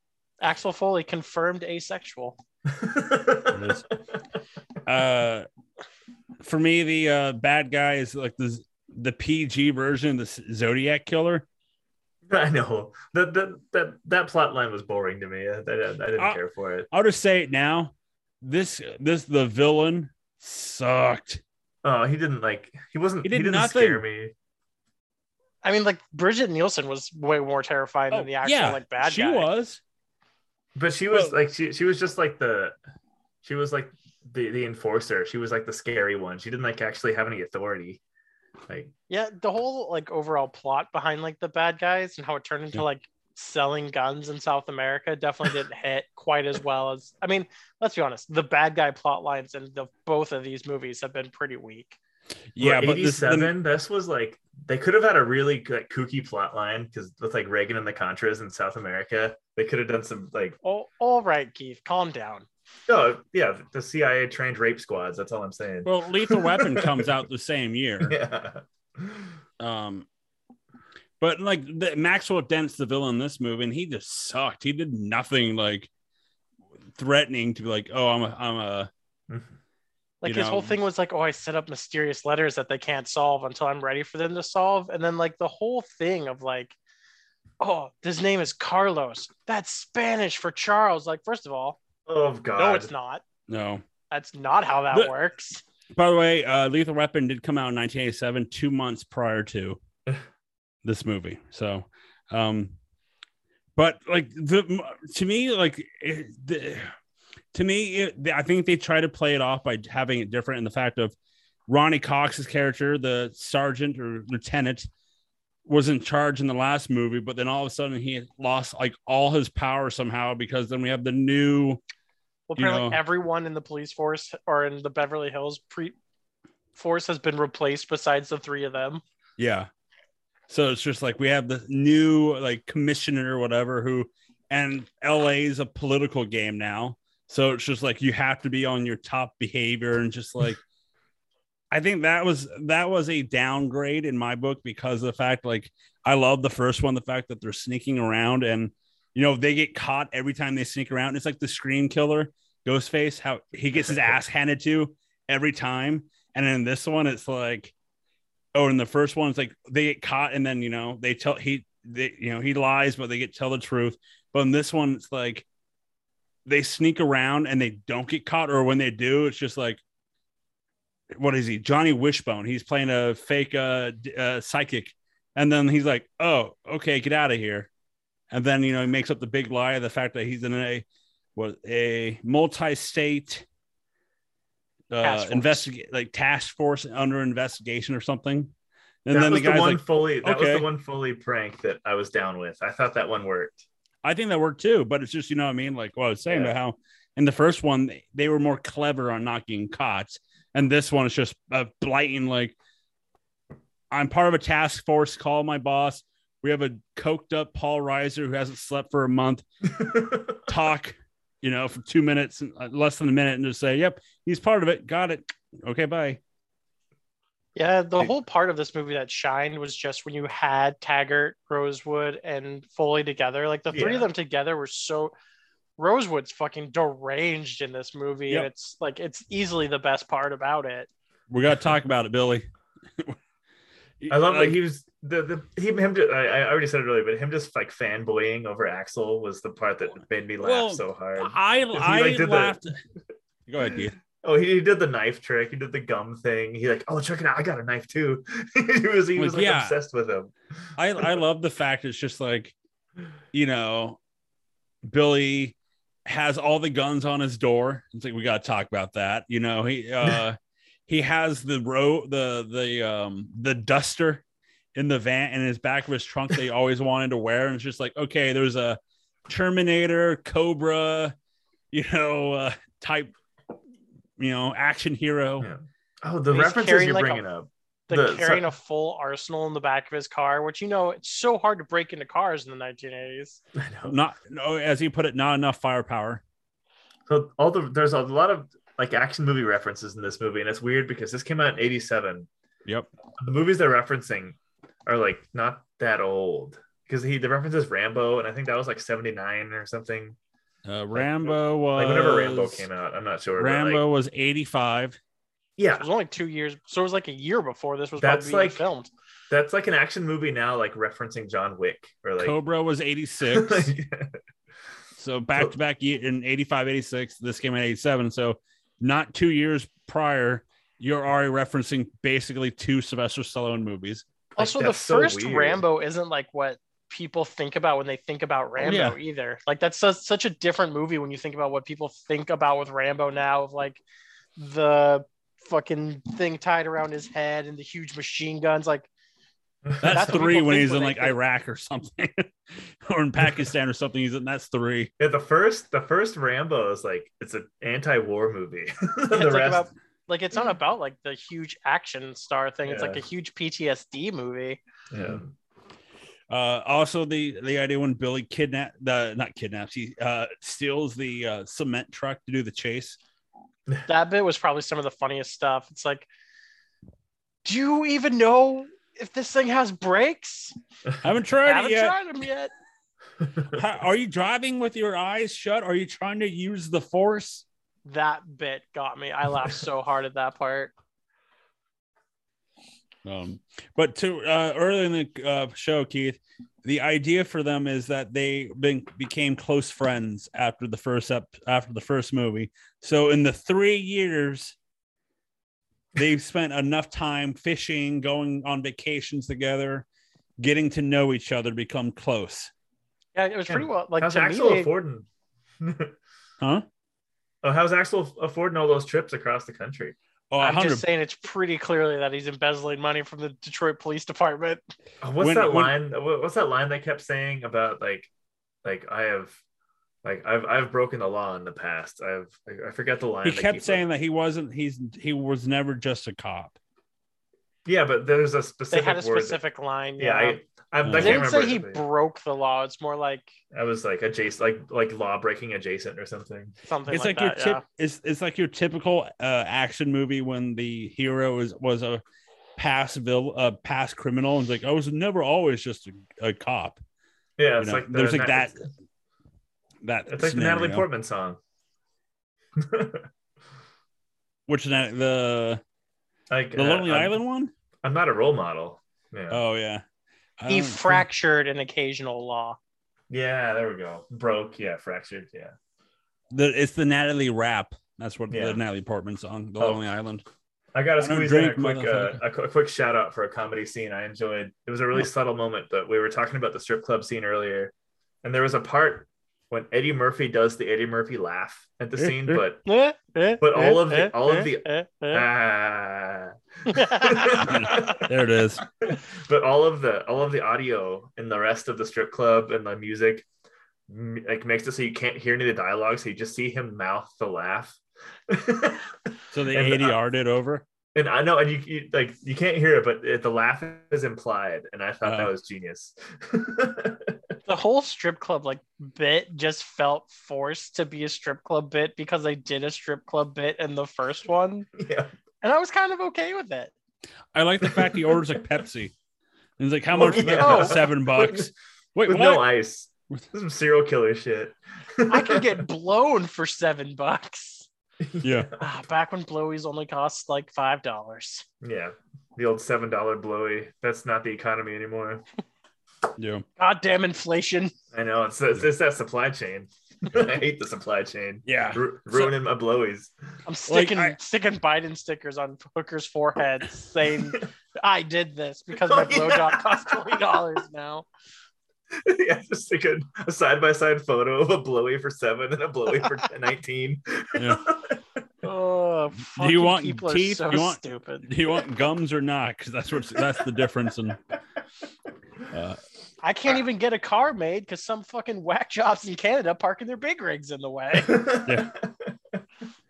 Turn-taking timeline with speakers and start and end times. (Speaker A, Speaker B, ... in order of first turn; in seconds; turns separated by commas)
Speaker A: 0.4-2.4, Speaker B: 2.7-3.8, Speaker C: 3.5-3.9, Speaker C: 4.8-5.5, Speaker C: 6.4-11.4, Speaker B: 12.3-16.9, Speaker C: 16.9-21.4, Speaker B: 21.8-24.3, Speaker C: 23.2-24.0, Speaker A: 25.6-29.5, Speaker C: 28.1-29.8, Speaker B: 30.8-32.8, Speaker B: 33.4-38.0, Speaker A: 39.1-52.0, Speaker C: 52.5-53.5, Speaker B: 52.6-60.5, Speaker A: 60.6-62.5, Speaker B: 62.9-67.1, Speaker C: 65.8-68.2, Speaker B: 68.0-69.3, Speaker C: 69.6-70.0, Speaker C: 71.2-75.9, Speaker C: 76.9-78.9, Speaker B: 79.3-79.5, Speaker A: 80.2-86.8, Speaker C: 80.2-80.8, Speaker A: 87.6-91.8, Speaker B: 92.1-92.9, Speaker A: 92.6-93.2, Speaker C: 93.5-93.8, Speaker A: 94.1-95.6, Speaker C: 95.9-99.8, Speaker C: 100.8-102.7, Speaker C: 103.8-106.9, Speaker C: 107.5-111.1, Speaker C: 111.7-114.9, Speaker C: 115.7-121.8, Speaker A: 122.5-126.0, Speaker C: 122.6-123.0, Speaker A: 126.7-129.0, Speaker C: 129.4-129.7, Speaker C: 130.5-140.6, Speaker C: 141.7-157.7, Speaker B: 153.7-154.2, Speaker C: 158.5-165.4, Speaker C: 166.4-169.8, Speaker C: 171.2-177.7, Speaker C: 178.3-180.8, Speaker C: 181.3-183.4, Speaker C: 184.9-188.5, Speaker A: 185.0-185.7, Speaker C: 189.1-190.7, Speaker B: 189.1-193.6, Speaker C: 194.0-202.6, Speaker B: 196.3-196.5, Speaker C: 203.9-209.7, Speaker B: 209.7-210.4, Speaker C: 210.4-216.2, Speaker A: 217.6-225.1, Speaker B: 223.7-224.1, Speaker A: 225.8-230.9, Speaker C: 231.3-232.4, Speaker C: 234.0-234.6, Speaker B: 234.1-242.6, Speaker C: 240.4-242.8, Speaker C: 243.5-244.0, Speaker B: 243.7-250.3, Speaker C: 249.2-249.8, Speaker C: 250.8-252.5, Speaker C: 253.3-254.0, Speaker C: 254.8-255.5, Speaker C: 256.1-260.4, Speaker C: 260.9-264.2, Speaker C: 264.7-271.1, Speaker C: 271.7-273.1, Speaker C: 274.2-275.5, Speaker B: 275.4-278.5, Speaker A: 276.3-277.2, Speaker A: 277.9-283.4, Speaker B: 283.5-284.0, Speaker C: 283.9-286.2, Speaker B: 287.1-292.3, Speaker B: 293.2-300.2, Speaker C: 300.6-302.6, Speaker B: 300.9-303.8, Speaker C: 303.4-305.0, Speaker B: 305.6-305.9, Speaker A: 305.7-308.9, Speaker B: 308.0-308.6, Speaker B: 309.3-312.4, Speaker C: 312.2-313.7, Speaker B: 313.2-314.2, Speaker C: 315.0-324.1, Speaker B: 324.3-325.6, Speaker A: 324.4-333.8, Speaker C: 328.6-329.0, Speaker A: 334.4-338.9, Speaker B: 339.6-340.2, Speaker C: 339.8-344.9, Speaker A: 339.8-341.2, Speaker B: 345.0-349.7, Speaker A: 349.1-354.6, Speaker B: 352.6-353.0, Speaker B: 354.9-355.3, Speaker C: 356.3-363.0, Speaker A: 363.9-366.1, Speaker A: 367.4-370.6, Speaker C: 371.0-372.0, Speaker A: 371.4-372.5, Speaker B: 373.2-373.5, Speaker C: 373.5-377.4, Speaker A: 377.9-380.7, Speaker C: 383.0-394.5, Speaker C: 395.9-399.8, Speaker C: 400.4-402.5, Speaker A: 403.1-404.7, Speaker B: 403.5-405.1, Speaker B: 405.6-405.9, Speaker B: 407.4-409.9, Speaker C: 410.3-410.8, Speaker A: 410.4-414.6, Speaker B: 415.0-418.1, Speaker C: 415.2-415.7, Speaker B: 418.6-419.4, Speaker B: 420.0-423.8, Speaker C: 423.2-426.6, Speaker B: 427.6-429.4, Speaker A: 428.7-430.4, Speaker B: 430.0-431.8, Speaker C: 430.8-431.2, Speaker A: 430.9-433.3, Speaker B: 433.5-436.5, Speaker A: 436.6-437.6, Speaker C: 436.9-442.0, Speaker C: 442.6-446.8, Speaker B: 447.4-448.5, Speaker C: 447.6-448.7, Speaker C: 449.8-450.8, Speaker B: 450.1-451.4, Speaker B: 452.6-453.1, Speaker C: 454.5-455.6, Speaker B: 456.3-457.1, Speaker C: 456.6-457.5, Speaker B: 457.8-459.4, Speaker C: 459.3-459.8, Speaker C: 460.4-461.0, Speaker A: 460.5-462.6, Speaker B: 463.1-465.5, Speaker C: 466.3-470.2, Speaker B: 468.3-468.6, Speaker B: 470.7-477.7, Speaker C: 471.0-472.2, Speaker B: 478.2-482.6, Speaker C: 482.0-482.4, Speaker A: 482.6-485.2, Speaker B: 483.4-493.2, Speaker A: 486.7-488.0, Speaker C: 487.3-488.6, Speaker B: 493.9-500.0, Speaker C: 499.3-500.6, Speaker B: 500.9-507.2, Speaker C: 505.0-505.3, Speaker A: 507.4-514.7, Speaker B: 514.8-515.1, Speaker A: 515.4-516.7, Speaker C: 517.3-518.9, Speaker B: 517.6-518.2, Speaker C: 519.6-522.4, Speaker B: 519.9-521.5, Speaker A: 520.0-520.8, Speaker B: 522.0-525.5, Speaker A: 525.1-527.7, Speaker B: 528.0-528.5, Speaker C: 528.2-528.5, Speaker A: 528.6-531.4, Speaker B: 531.6-535.2, Speaker C: 536.2-536.4, Speaker A: 536.6-537.7, Speaker B: 537.9-543.1, Speaker C: 541.5-542.3, Speaker A: 543.5-551.0, Speaker C: 543.7-544.1, Speaker B: 548.8-550.4, Speaker B: 551.9-558.0, Speaker C: 557.4-557.7, Speaker A: 558.4-561.6, Speaker C: 559.3-564.2, Speaker C: 565.5-565.8, Speaker A: 566.2-571.4, Speaker B: 571.0-572.1, Speaker C: 571.5-571.7